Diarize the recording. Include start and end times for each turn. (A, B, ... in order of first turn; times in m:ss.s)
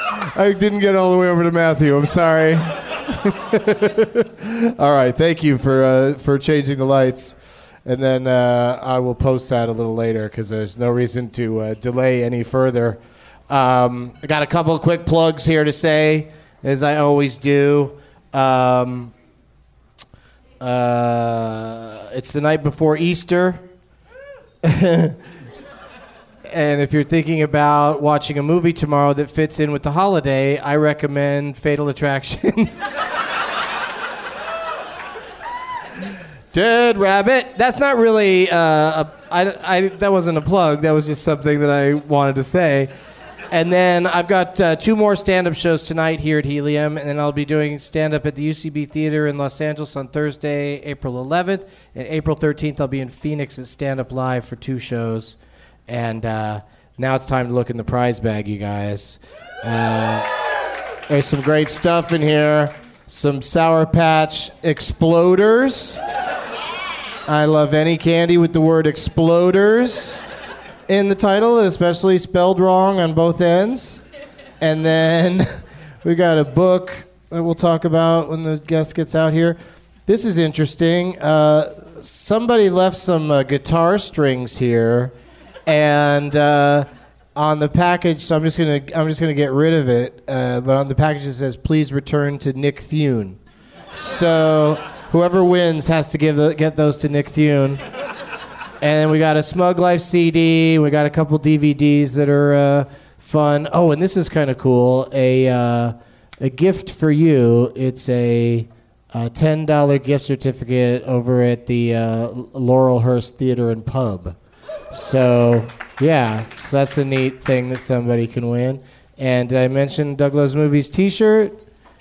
0:00.3-0:19.1 A
0:20.6-0:23.6 A
0:24.6-0:25.2 A
0:26.5-0:32.7 A
0:36.5-0:42.9 A
0:43.5-0:55.4 A
0:55.9-1:00.3 A
1:01.1-1:06.0 A
1:07.3-1:10.2 A
1:10.9-1:14.0 A
1:14.6-1:25.1 A
1:25.7-1:33.4 A
1:34.0-1:37.8 A
1:38.8-1:54.4 A
1:54.9-2:01.6 A